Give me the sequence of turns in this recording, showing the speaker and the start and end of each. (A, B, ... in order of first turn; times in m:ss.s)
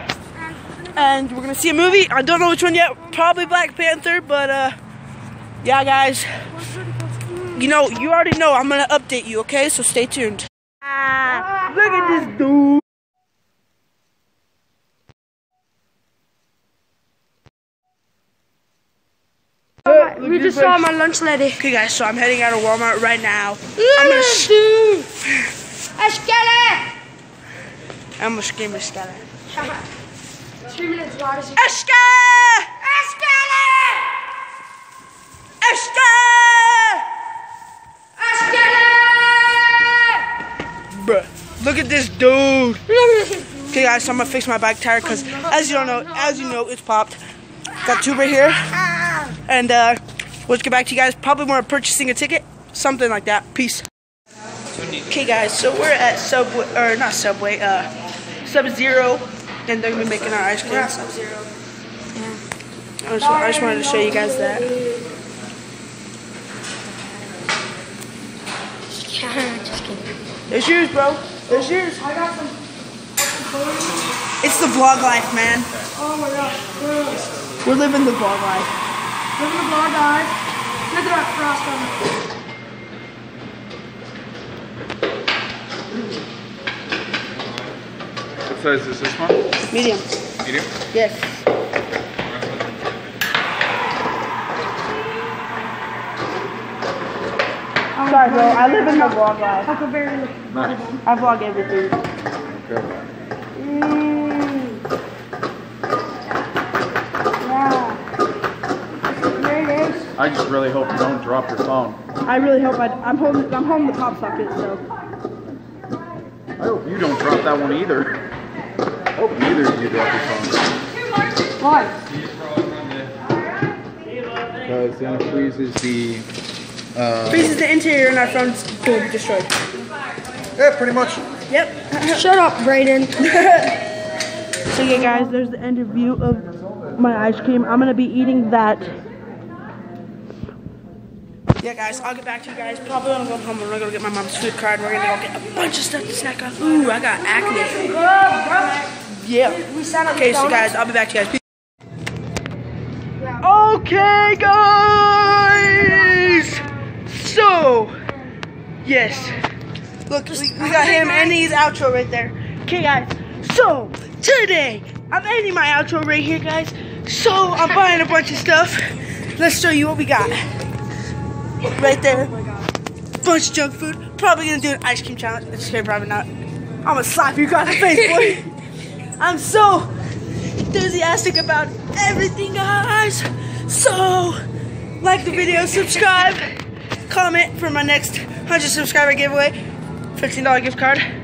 0:00.3-0:02.1 A
0:00.9-0:04.7 B
0:03.0-0:03.8 A
0:05.6-0:06.4 B
0:06.5-0:08.0 A
0:07.5-0:12.8 B
0:11.3-0:12.2 A
0:19.8-0:21.6 A
0:19.8-0:20.8 B
0:21.6-0:24.5 B
0:23.8-0:25.1 A
0:25.2-0:25.5 B
0:26.0-0:26.9 A
0:28.2-0:29.3 B
0:29.5-0:29.8 A
0:30.7-0:31.8 A
0:31.6-0:32.7 B
0:32.8-0:34.1 A
0:35.6-0:37.0 B
0:38.2-0:40.3 A
0:40.9-0:42.8 B
0:42.9-0:44.3 A
0:43.7-0:47.2 B
0:45.0-0:46.6 A
0:47.8-0:53.8 B
0:55.1-0:57.9 B
0:58.4-1:01.4 B
1:02.1-1:02.4 A
1:03.0-1:04.7 B
1:03.2-1:05.0 A
1:09.0-1:10.1 A
1:10.5-1:12.0 B
1:11.5-1:12.6 A
1:13.2-1:14.1 A
1:14.4-1:15.7 B
1:15.9-1:17.3 A
1:17.6-1:18.7 B
1:19.4-1:20.3 A
1:20.9-1:22.0 A
1:28.4-1:29.4 C
1:29.7-1:30.0 B
1:30.4-1:30.7 C
1:30.9-1:31.4 B
1:37.9-1:41.0 A
1:38.0-1:39.7 B
1:40.5-1:40.9 C
1:41.0-1:42.0 B
1:42.4-1:43.1 C
1:43.6-1:44.7 B
1:47.4-1:48.0 A
1:49.1-1:50.1 A
1:50.2-1:52.0 C
1:52.2-1:54.8 B
1:56.6-1:58.1 C
1:59.1-2:00.7 C
2:01.6-2:01.9 A
2:04.6-2:06.3 C
2:06.9-2:07.5 C
2:07.3-2:09.5 B
2:10.6-2:11.2 C
2:11.5-2:12.2 B
2:12.1-2:13.2 A
2:13.2-2:13.8 B
2:14.7-2:18.9 B
2:21.6-2:27.9 B
2:27.3-2:28.9 A
2:29.0-2:31.4 B
2:29.4-2:30.7 A
2:33.2-2:33.6 A
2:33.4-2:38.0 B
2:35.3-2:36.8 A
2:38.8-2:39.4 B
2:39.1-2:39.4 A
2:40.1-2:50.5 B
2:40.3-2:41.4 A
2:51.6-2:52.3 B
2:51.7-2:52.7 A
2:53.2-2:56.3 B
2:56.8-2:58.6 B
2:59.2-2:59.9 B
3:00.6-3:04.4 B
3:05.0-3:06.5 B
3:07.1-3:09.6 B
3:10.2-3:11.0 B